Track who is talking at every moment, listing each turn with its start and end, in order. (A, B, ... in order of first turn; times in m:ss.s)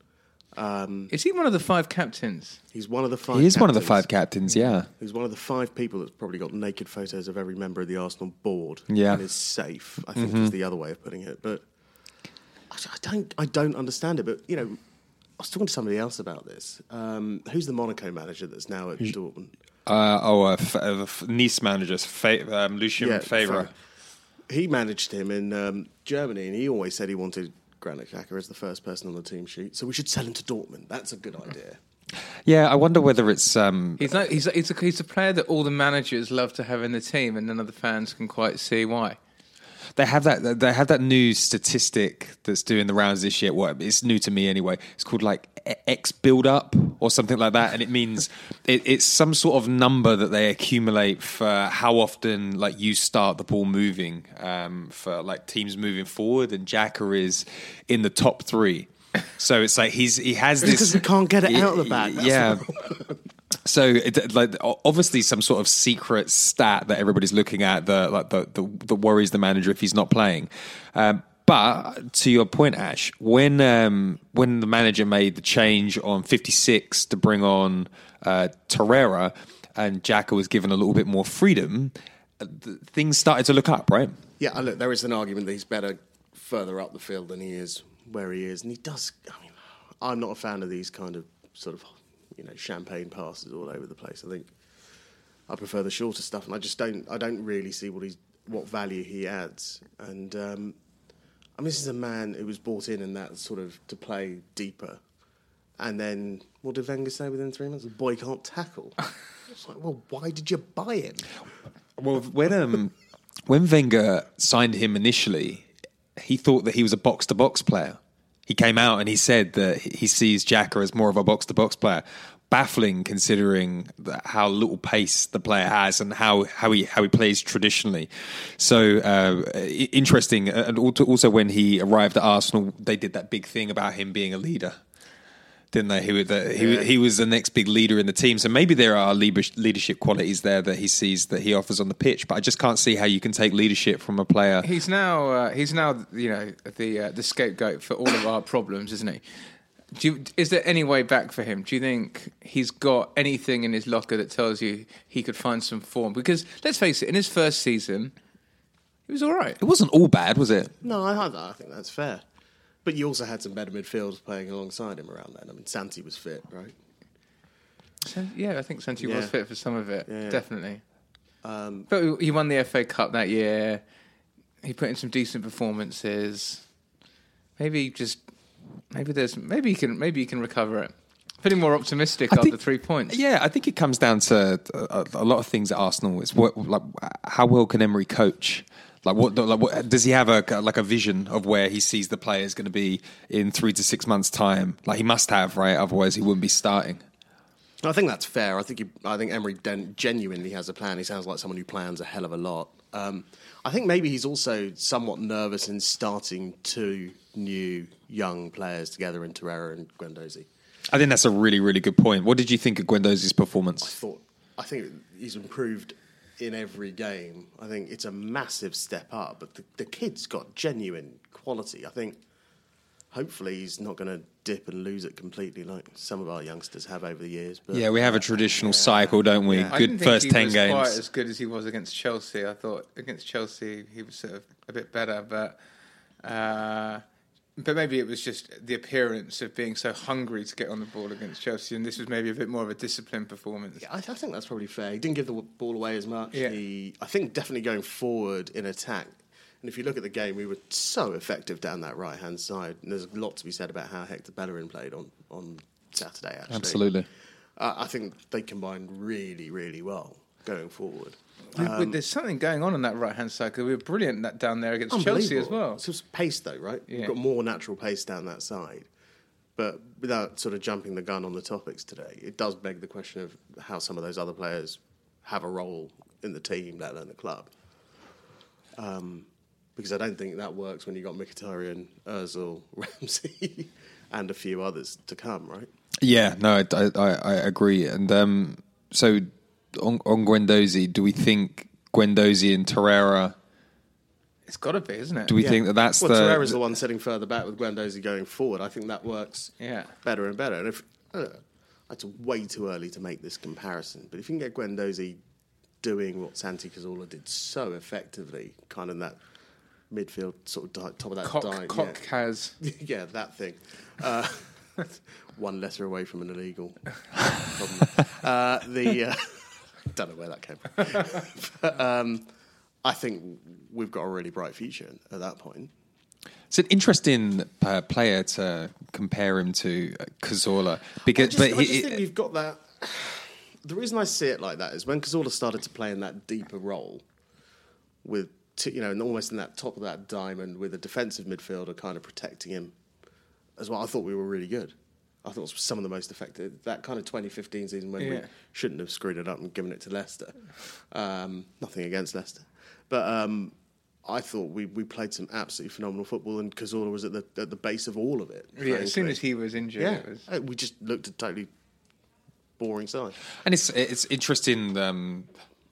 0:00.5-0:01.1 A
0:01.1-0:02.6 B
0:02.7-0:11.6 A
0:03.3-0:04.9 C
0:08.9-0:09.2 C
0:10.2-0:10.5 C
0:12.7-0:14.8 A
0:15.4-0:19.5 A
0:19.9-0:23.7 C
0:23.0-0:23.7 A
0:24.5-0:31.8 A
0:32.5-0:34.1 C
0:34.0-0:39.2 B
0:40.0-1:02.7 C
1:00.6-1:03.2 A
1:03.6-1:24.2 C
1:24.4-1:34.5 A
1:35.5-1:40.8 A
1:41.6-1:45.0 A
1:45.8-1:51.3 A
1:52.0-1:53.0 C
1:53.5-2:14.8 C
2:15.7-2:24.7 C
2:16.6-2:16.9 A
2:24.6-2:29.2 B
2:30.0-2:38.2 B
2:39.1-2:39.6 B
2:39.6-2:40.8 C
2:40.8-2:42.2 A
2:42.8-2:46.7 A
2:48.0-2:50.8 B
2:49.0-2:49.3 A
2:50.1-2:50.4 A
2:51.4-2:51.9 A
2:51.9-2:53.8 B
2:54.6-2:56.6 B
2:57.6-2:58.3 B
2:58.9-3:03.2 B
3:02.3-3:02.6 C
3:03.1-3:17.0 C
3:17.8-3:30.5 A
3:30.9-3:34.0 C
3:33.8-3:42.2 A
3:43.1-3:49.8 A
3:47.7-3:51.0 C
3:49.7-3:55.6 B
3:56.2-3:57.0 B
3:57.6-4:03.9 B
4:03.8-4:16.8 A
4:06.3-4:06.6 B
4:16.5-4:17.1 C
4:17.6-4:22.0 A
4:21.6-4:25.8 B
4:24.9-4:28.9 A
4:26.9-4:27.1 B
4:29.6-4:37.5 A
4:38.8-4:45.7 A
4:46.0-4:53.4 C
4:54.5-4:55.4 B
4:55.3-4:56.6 C
4:55.4-5:05.2 A
4:59.6-4:59.9 B
5:05.8-5:09.2 A
5:09.9-5:12.0 A
5:11.2-5:12.6 B
5:12.6-5:22.3 A
5:22.8-5:25.7 A
5:26.5-5:32.0 C
5:31.0-5:37.0 A
5:38.0-5:42.8 A
5:43.6-5:53.5 A
5:48.0-5:48.3 B
5:54.0-5:59.2 A
5:58.6-6:00.2 B
5:59.8-6:01.5 A
6:02.6-6:03.2 A
6:03.4-6:05.3 C